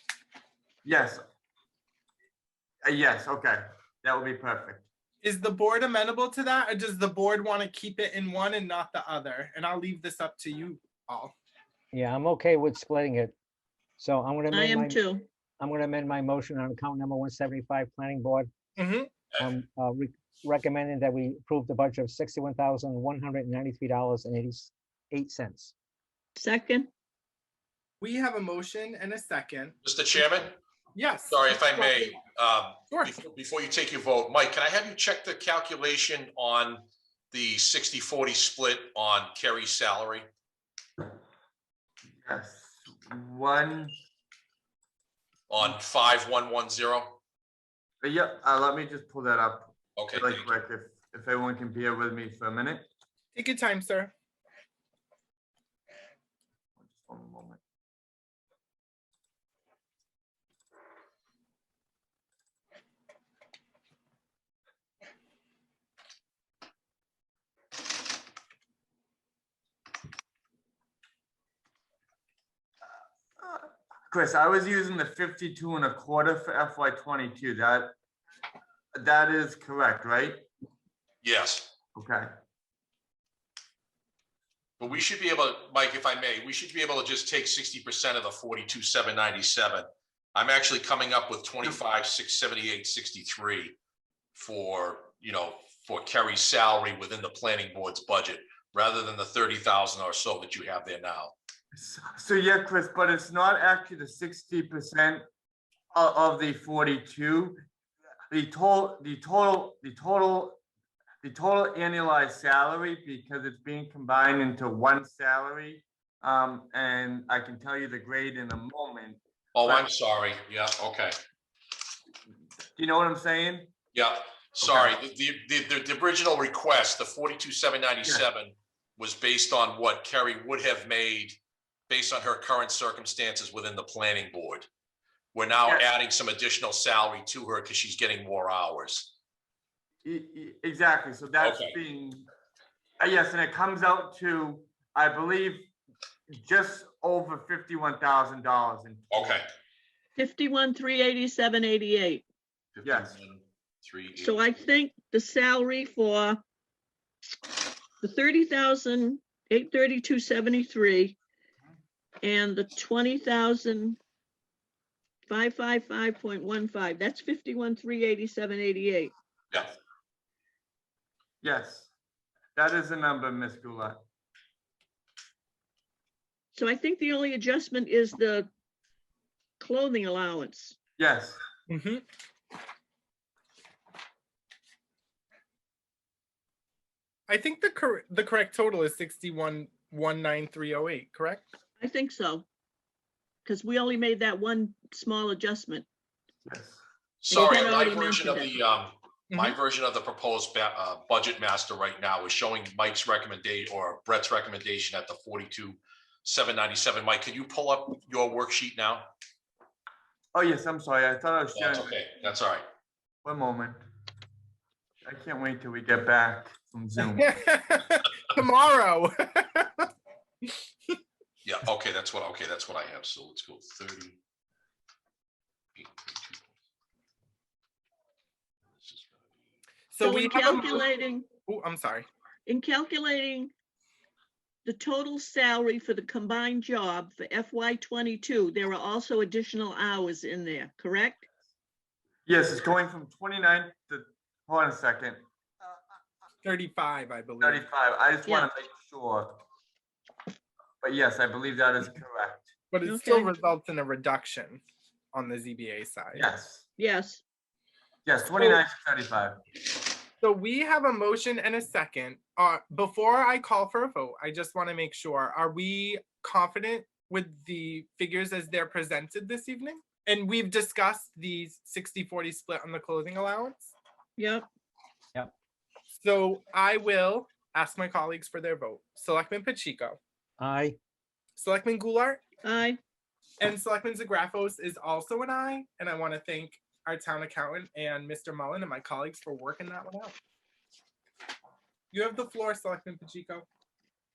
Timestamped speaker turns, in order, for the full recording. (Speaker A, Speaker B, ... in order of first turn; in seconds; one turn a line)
Speaker A: 0.8-1.2
Speaker A: 2.8-4.8
Speaker B: 5.2-11.3
Speaker C: 11.9-13.3
Speaker C: 14.0-15.1
Speaker D: 14.5-15.2
Speaker C: 15.6-18.5
Speaker B: 18.8-19.3
Speaker C: 19.4-25.7
Speaker D: 26.3-26.9
Speaker B: 28.0-29.8
Speaker E: 29.8-30.6
Speaker B: 30.9-32.2
Speaker E: 31.3-40.2
Speaker A: 42.2-43.9
Speaker E: 45.5-47.2
Speaker A: 48.0-52.9
Speaker E: 50.0-50.5
Speaker B: 53.3-54.1
Speaker A: 56.8-57.6
Speaker A: 73.4-77.9
Speaker A: 78.9-80.4
Speaker E: 81.2-81.7
Speaker A: 81.9-82.3
Speaker E: 84.8-93.8
Speaker E: 94.3-101.3
Speaker A: 101.7-105.2
Speaker A: 105.9-107.6
Speaker A: 108.3-110.6
Speaker A: 111.2-119.9
Speaker E: 119.5-121.1
Speaker A: 122.8-123.7
Speaker E: 123.9-131.4
Speaker A: 124.6-125.0
Speaker E: 131.9-134.7
Speaker E: 135.3-139.1
Speaker A: 140.0-142.3
Speaker E: 141.4-141.8
Speaker A: 143.0-145.7
Speaker A: 146.3-149.4
Speaker E: 149.1-149.4
Speaker D: 150.2-152.2
Speaker E: 152.7-154.4
Speaker A: 152.8-153.1
Speaker D: 154.1-156.4
Speaker D: 158.0-161.2
Speaker D: 162.2-164.0
Speaker D: 165.3-169.1
Speaker A: 171.4-171.9
Speaker A: 172.6-174.0
Speaker D: 176.5-178.5
Speaker D: 179.6-180.8
Speaker A: 181.0-181.4
Speaker B: 181.7-182.0
Speaker B: 187.3-191.4
Speaker D: 191.8-192.4
Speaker D: 193.4-195.8
Speaker A: 196.4-196.8
Speaker E: 197.2-209.1
Speaker D: 197.3-198.5
Speaker B: 199.3-199.6
Speaker A: 210.3-211.9
Speaker E: 211.5-212.6
Speaker A: 213.2-213.8
Speaker A: 215.0-217.3
Speaker B: 217.0-219.9
Speaker B: 220.4-221.0
Speaker E: 221.4-224.2
Speaker E: 225.8-226.5
Speaker E: 228.8-229.2
Speaker B: 229.9-230.9
Speaker D: 230.0-231.3
Speaker B: 231.4-232.1
Speaker D: 232.5-233.5
Speaker D: 234.6-241.2
Speaker A: 242.2-245.2
Speaker B: 246.4-247.7
Speaker A: 247.4-249.4
Speaker A: 250.8-252.5
Speaker B: 252.7-256.3
Speaker D: 252.8-253.3
Speaker A: 256.1-256.6
Speaker D: 256.8-257.2
Speaker A: 258.1-259.4
Speaker B: 260.2-273.7
Speaker D: 274.2-274.5
Speaker B: 276.0-280.0
Speaker C: 280.4-280.8
Speaker B: 281.4-282.2
Speaker D: 282.4-282.8
Speaker B: 283.4-290.1
Speaker B: 291.9-293.4